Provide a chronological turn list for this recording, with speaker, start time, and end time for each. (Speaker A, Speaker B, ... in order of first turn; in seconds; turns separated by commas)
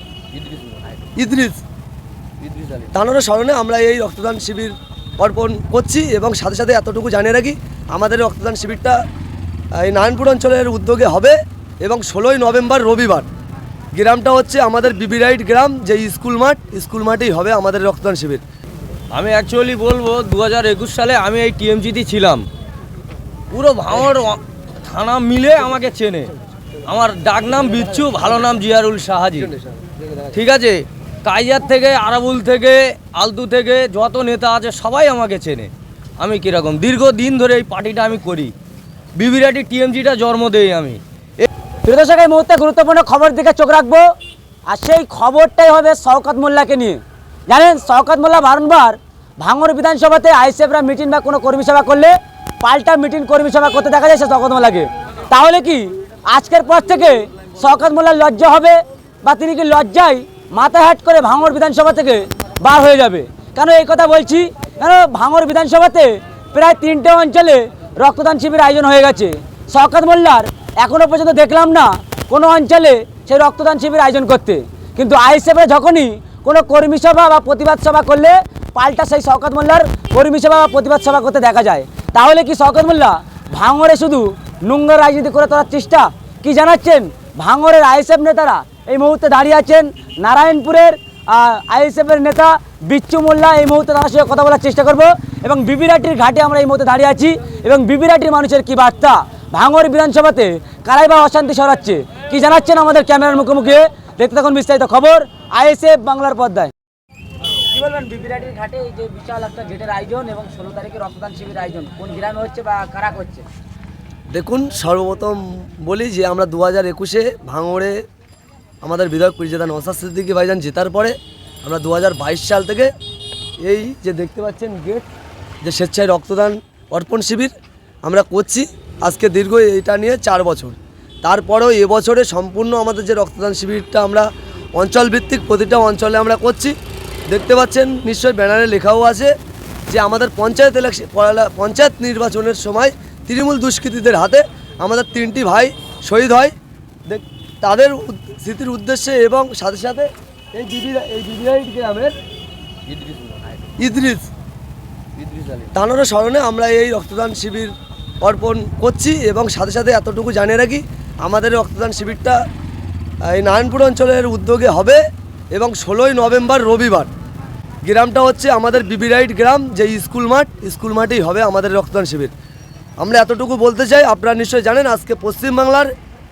Speaker A: 0.3-1.0, Speaker B: 1.1-1.6, Speaker A: 2.4-2.9, Speaker B: 2.9-9.0, Speaker B: 9.8-13.3, Speaker B: 13.9-18.4, Speaker A: 19.1-22.4, Speaker A: 23.5-26.3, Speaker A: 26.9-29.6, Speaker A: 30.3-38.5, Speaker A: 39.1-41.5, Speaker C: 41.8-44.0, Speaker C: 44.7-106.7, Speaker C: 107.7-113.5, Speaker B: 114.3-118.0, Speaker B: 118.8-122.9, Speaker B: 123.6-125.1, Speaker B: 125.6-127.5, Speaker B: 128.0-136.8, Speaker B: 137.3-139.3, Speaker B: 139.9-146.5, Speaker B: 147.1-152.1, Speaker A: 152.9-153.5, Speaker B: 153.8-154.3, Speaker A: 155.2-155.7, Speaker B: 155.7-162.4, Speaker B: 163.2-165.0, Speaker B: 165.5-167.1, Speaker B: 167.8-172.3, Speaker B: 173.0-175.9